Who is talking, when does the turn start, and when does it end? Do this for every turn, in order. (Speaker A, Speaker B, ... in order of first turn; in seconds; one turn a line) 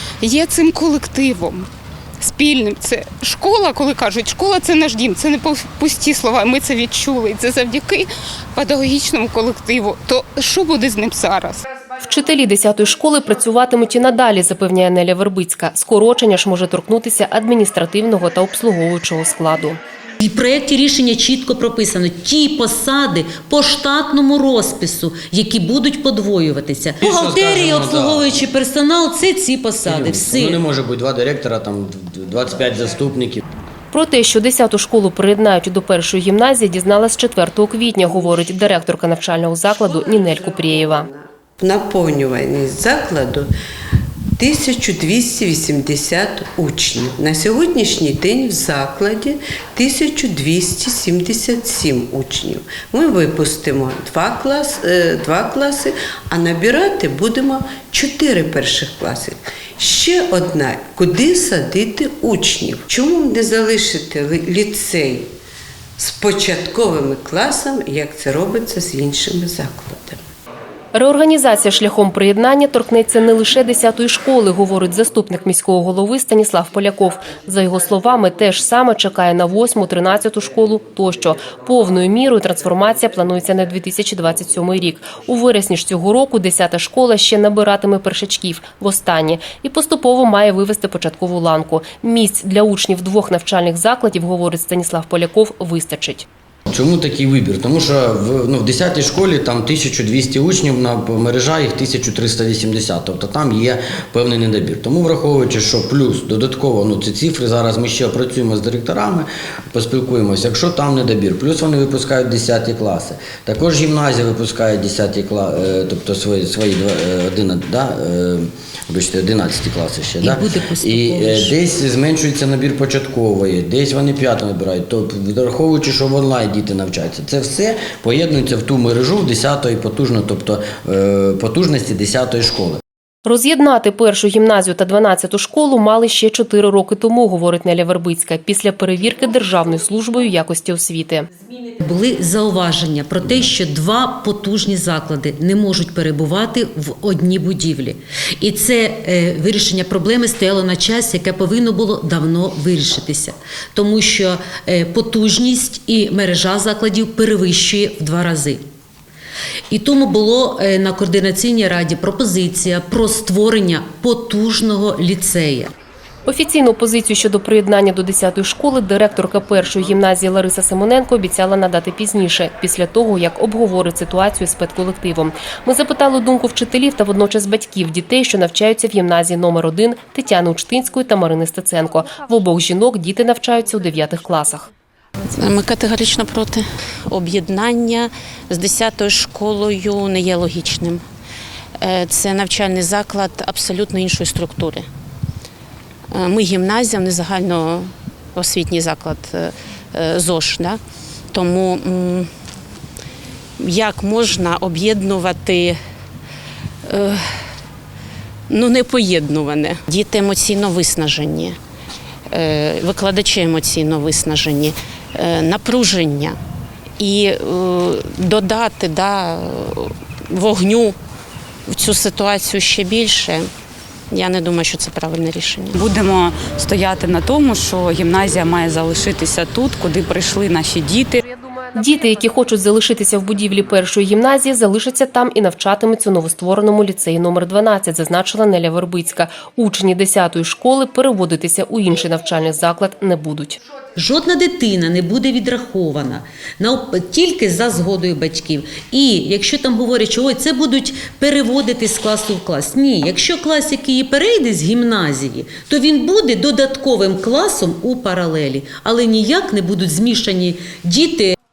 Speaker A: 0.2-1.7
Speaker A: 2.2-11.6
Speaker B: 12.0-19.8
Speaker C: 20.2-30.6
Speaker D: 27.0-28.4
Speaker D: 29.8-33.4
Speaker B: 33.9-41.1
Speaker E: 40.0-43.5
Speaker E: 44.4-65.3
Speaker E: 66.0-70.2
Speaker B: 70.9-96.3
Speaker D: 96.7-132.8
Speaker C: 120.2-121.5
Speaker B: 133.3-141.3
Speaker C: 141.8-158.6
Speaker C: 159.7-165.7
Speaker B: 166.3-184.7
Speaker F: 185.3-191.0
Speaker F: 191.8-194.9
Speaker F: 196.1-200.8
Speaker F: 201.3-202.3
Speaker F: 203.6-205.8
Speaker F: 206.9-207.2
Speaker F: 208.5-211.6
Speaker F: 212.3-216.4
Speaker F: 217.0-221.0
Speaker F: 221.7-223.5
Speaker F: 224.1-225.7
Speaker G: 225.8-231.2
Speaker B: 231.7-243.6
Speaker C: 244.0-261.3